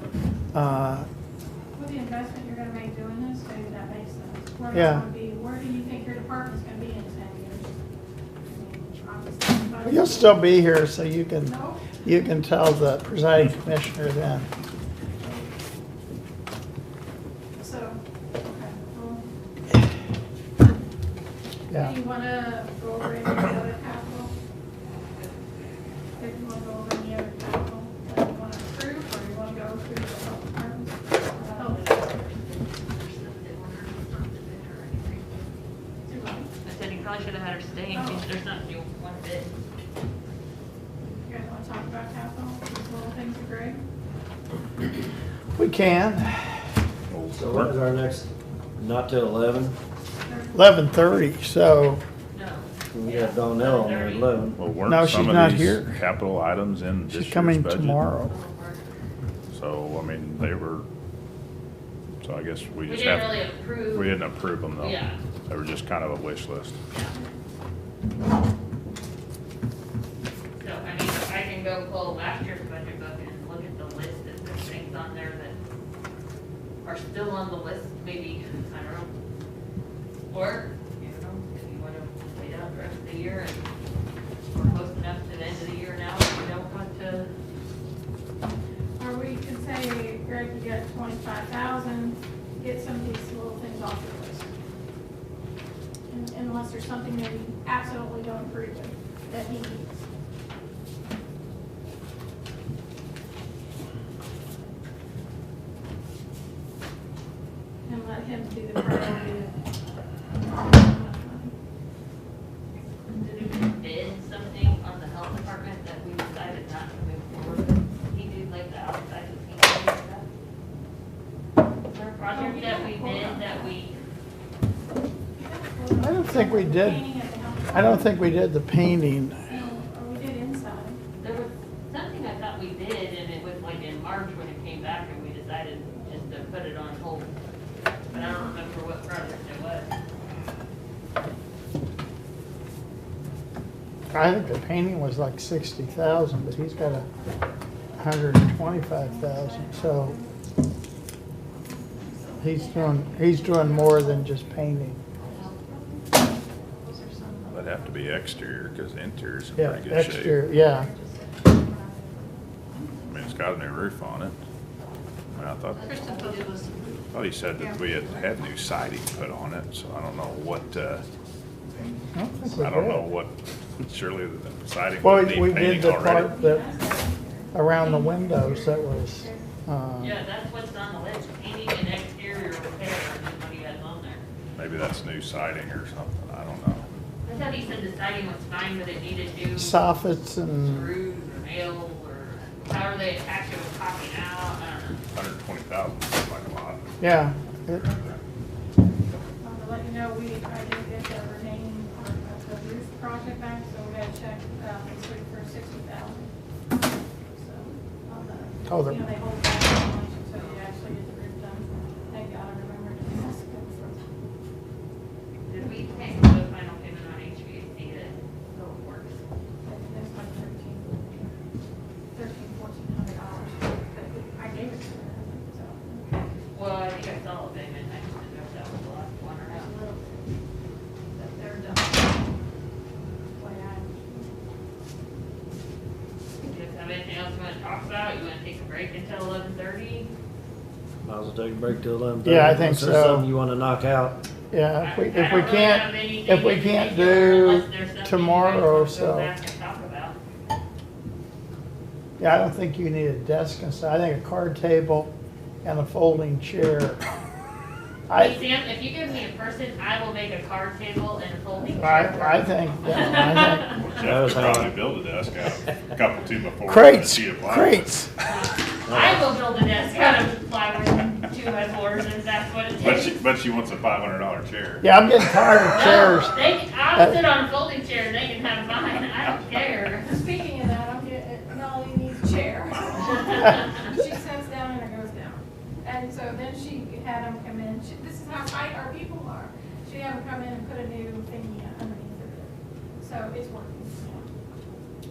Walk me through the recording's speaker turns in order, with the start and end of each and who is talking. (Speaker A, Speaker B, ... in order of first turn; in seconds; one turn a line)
Speaker A: 0.5-1.1
Speaker B: 1.7-7.8
Speaker A: 4.7-5.1
Speaker B: 8.4-10.4
Speaker A: 9.8-14.5
Speaker B: 11.4-11.8
Speaker B: 15.2-15.5
Speaker B: 17.6-19.2
Speaker A: 21.7-21.9
Speaker B: 21.7-24.3
Speaker C: 25.1-25.8
Speaker B: 26.2-31.9
Speaker C: 31.3-35.5
Speaker B: 36.0-36.5
Speaker C: 36.6-39.5
Speaker B: 37.9-38.3
Speaker B: 41.1-43.8
Speaker A: 45.5-46.6
Speaker D: 47.1-47.7
Speaker E: 47.3-49.7
Speaker B: 50.2-50.6
Speaker A: 50.5-52.0
Speaker C: 52.3-54.5
Speaker E: 52.9-54.6
Speaker D: 54.6-58.0
Speaker A: 54.8-55.8
Speaker A: 57.1-58.3
Speaker C: 58.3-58.9
Speaker D: 59.5-60.8
Speaker D: 62.2-66.8
Speaker C: 62.9-64.1
Speaker C: 64.8-65.2
Speaker C: 66.9-67.2
Speaker C: 70.6-75.5
Speaker C: 76.8-79.1
Speaker C: 80.3-83.7
Speaker C: 84.5-87.3
Speaker B: 89.0-94.5
Speaker B: 96.1-100.0
Speaker B: 107.8-109.5
Speaker B: 110.5-111.5
Speaker C: 113.1-120.2
Speaker C: 121.9-124.0
Speaker B: 122.3-123.8
Speaker B: 125.3-128.1
Speaker A: 126.0-127.1
Speaker A: 127.7-129.4
Speaker B: 129.5-131.0
Speaker C: 131.2-137.3
Speaker C: 138.1-139.9
Speaker B: 138.1-138.6
Speaker A: 144.1-147.1
Speaker B: 146.8-147.3
Speaker A: 148.0-150.2
Speaker B: 148.4-150.3
Speaker B: 151.6-154.3
Speaker A: 152.4-155.0
Speaker B: 155.2-158.0
Speaker C: 155.3-155.7
Speaker D: 157.5-160.4
Speaker A: 159.6-160.9
Speaker B: 160.4-163.4
Speaker D: 163.1-164.3
Speaker D: 165.3-166.3
Speaker B: 165.8-166.9
Speaker C: 165.8-167.0
Speaker D: 167.1-171.0
Speaker B: 167.6-167.9
Speaker B: 171.7-172.0
Speaker A: 172.1-173.0
Speaker D: 172.4-176.3
Speaker A: 175.0-176.7
Speaker B: 176.1-179.5
Speaker A: 177.5-180.1
Speaker C: 180.0-184.2
Speaker D: 184.6-186.8
Speaker C: 187.2-189.8
Speaker A: 189.6-190.9
Speaker C: 190.6-195.0
Speaker D: 195.1-196.9
Speaker A: 197.0-197.8
Speaker D: 197.9-198.2
Speaker B: 199.4-206.3
Speaker B: 207.3-214.0
Speaker A: 208.7-209.1
Speaker C: 210.3-210.6
Speaker C: 215.4-219.2
Speaker B: 219.6-221.3
Speaker B: 222.1-226.3
Speaker C: 226.5-229.7
Speaker B: 229.5-230.3
Speaker B: 231.1-232.3
Speaker B: 233.3-234.3
Speaker C: 236.4-240.1
Speaker E: 241.0-244.2
Speaker A: 242.2-243.3
Speaker A: 244.5-249.3
Speaker C: 244.8-250.2
Speaker A: 252.2-255.1
Speaker A: 255.6-257.0
Speaker A: 258.1-258.3
Speaker C: 258.1-263.8
Speaker A: 261.8-263.7
Speaker D: 263.7-267.9
Speaker E: 264.3-264.6
Speaker A: 266.7-268.1
Speaker C: 268.2-273.2
Speaker D: 272.8-275.7
Speaker A: 274.8-276.3
Speaker C: 275.7-280.2
Speaker B: 280.1-294.3